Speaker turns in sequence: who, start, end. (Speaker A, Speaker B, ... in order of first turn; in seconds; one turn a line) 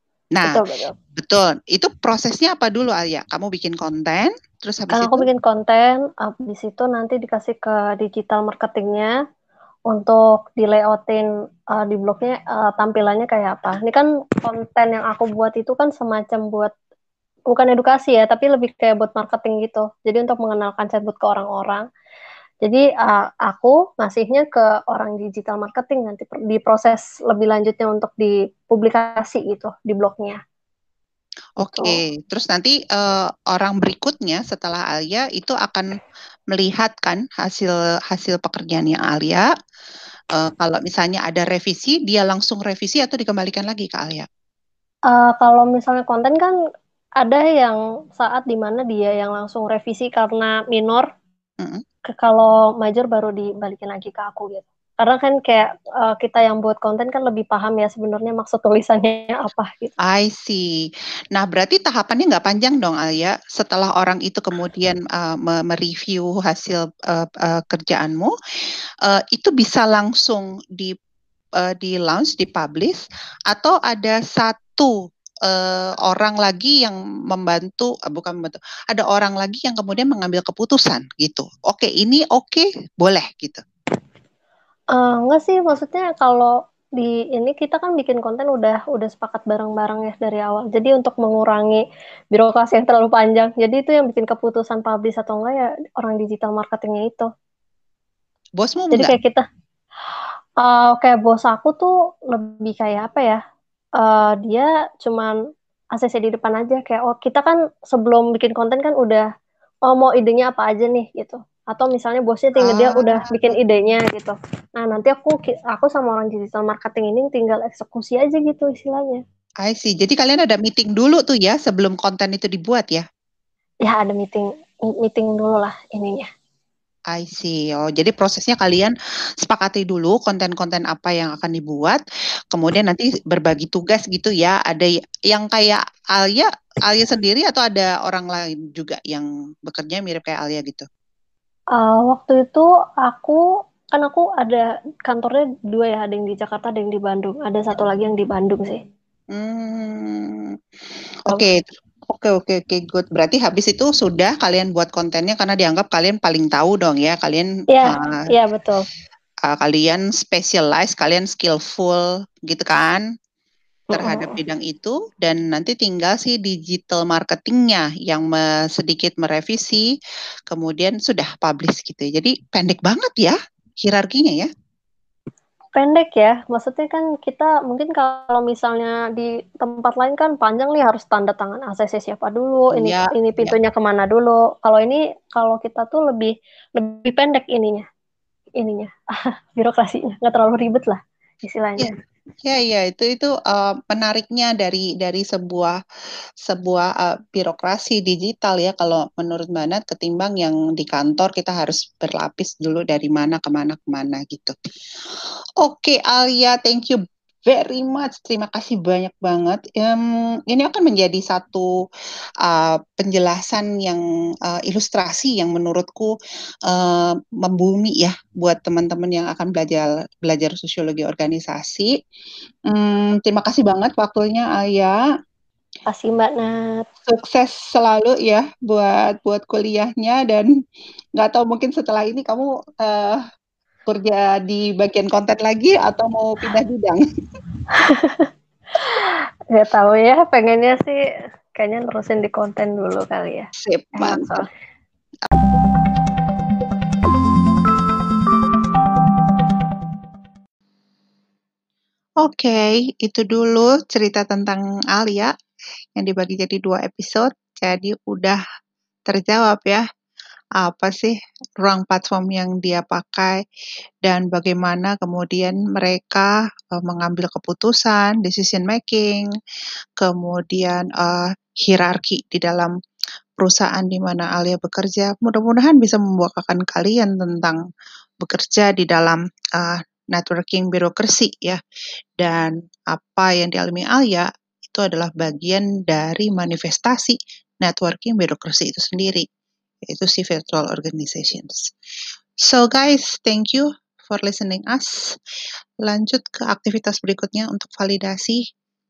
Speaker A: 0.4-0.9
Speaker B: 1.2-5.3
Speaker A: 4.9-9.1
Speaker A: 9.9-16.7
Speaker A: 17.5-21.8
Speaker A: 22.6-30.4
Speaker B: 31.6-35.9
Speaker A: 31.6-32.0
Speaker B: 36.5-39.5
Speaker B: 40.4-44.3
Speaker A: 45.1-46.5
Speaker A: 47.2-51.1
Speaker A: 52.1-59.9
Speaker B: 60.0-60.6
Speaker B: 61.3-68.3
Speaker B: 69.1-70.9
Speaker B: 71.6-74.9
Speaker B: 75.5-83.6
Speaker A: 84.9-97.3
Speaker B: 98.6-99.1
Speaker A: 98.9-99.4
Speaker A: 100.6-103.4
Speaker A: 104.0-105.3
Speaker A: 105.9-109.2
Speaker A: 109.9-119.2
Speaker B: 112.6-113.5
Speaker B: 119.6-123.0
Speaker A: 123.8-126.3
Speaker B: 127.1-132.0
Speaker B: 132.5-140.8
Speaker A: 141.8-148.8
Speaker B: 149.3-150.5
Speaker B: 151.3-151.6
Speaker B: 152.1-158.1
Speaker A: 157.7-158.8
Speaker B: 159.5-163.0
Speaker A: 163.9-164.4
Speaker B: 163.9-169.8
Speaker B: 170.5-174.5
Speaker A: 175.7-187.8
Speaker B: 182.7-183.6
Speaker A: 188.6-188.9
Speaker A: 189.6-191.9
Speaker B: 192.4-195.7
Speaker B: 196.4-204.5
Speaker B: 205.6-211.7
Speaker B: 212.4-216.1
Speaker B: 216.7-221.9
Speaker B: 222.7-225.0
Speaker A: 225.9-226.8
Speaker B: 227.0-230.5
Speaker B: 231.2-233.2
Speaker B: 233.9-237.0
Speaker A: 237.7-241.0
Speaker A: 241.6-244.5
Speaker B: 243.6-244.4
Speaker B: 252.2-255.3
Speaker B: 255.9-258.4
Speaker B: 259.1-259.8
Speaker B: 260.6-263.4
Speaker B: 264.1-269.3
Speaker B: 270.0-272.7
Speaker B: 273.4-277.6
Speaker B: 278.2-281.6
Speaker B: 282.2-289.2
Speaker B: 289.9-291.7
Speaker B: 292.4-295.1
Speaker B: 295.8-298.4